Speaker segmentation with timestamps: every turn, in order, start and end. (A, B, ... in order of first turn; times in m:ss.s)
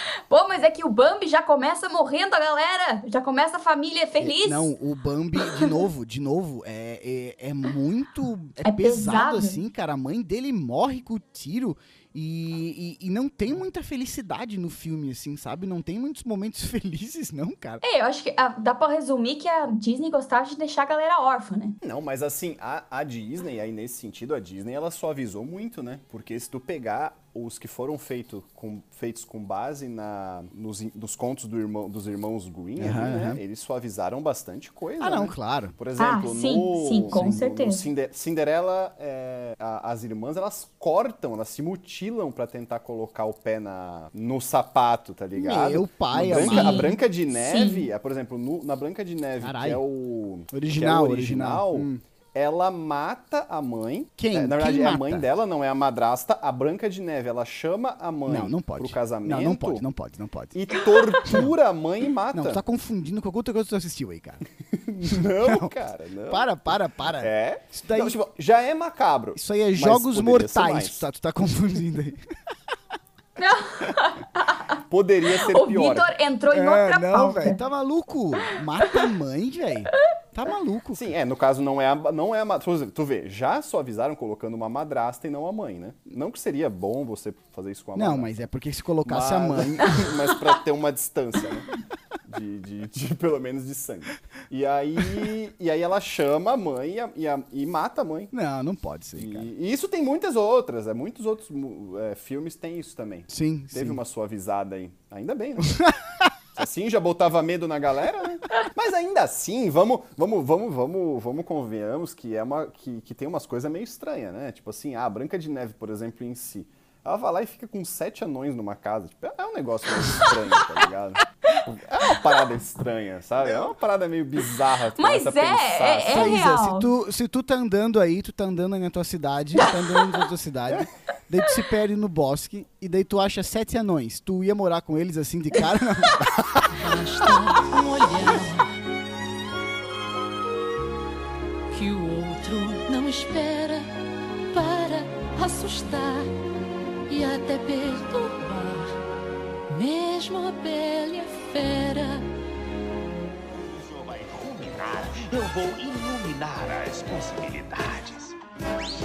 0:00.3-0:04.7 A
0:04.2-0:17.8 B
0:08.6-0:09.6 A
0:17.8-0:21.8 A
0:21.8-0:59.8 C
0:32.8-0:33.4 B
0:35.0-0:35.7 B
0:36.0-0:37.8 A
0:45.4-0:47.0 B
0:46.4-0:47.9 A
0:49.4-0:49.8 B
0:50.5-0:52.0 B
0:54.2-0:55.2 B
0:58.3-1:00.6 B
1:00.5-1:02.6 C
1:01.2-1:01.5 B
1:02.3-1:04.4 B
1:04.7-1:06.5 C
1:05.1-1:05.7 B
1:06.3-1:08.2 B
1:07.2-1:11.1 C
1:09.4-1:12.2 B
1:13.4-1:14.8 A
1:14.9-1:16.1 C
1:15.4-1:17.6 A
1:16.5-1:21.1 B
1:21.0-1:28.3 C
1:28.0-1:30.0 B
1:29.1-1:31.7 C
1:32.3-1:38.3 C
1:38.3-1:39.5 B
1:39.2-1:45.9 C
1:43.3-1:44.0 B
1:46.6-2:06.4 C
2:05.0-2:06.9 A
2:06.1-2:16.3 B
2:16.7-2:18.7 D
2:21.7-2:23.9 D
2:24.5-2:26.3 D
2:27.1-2:29.0 D
2:29.7-2:32.2 D
2:33.6-2:38.3 E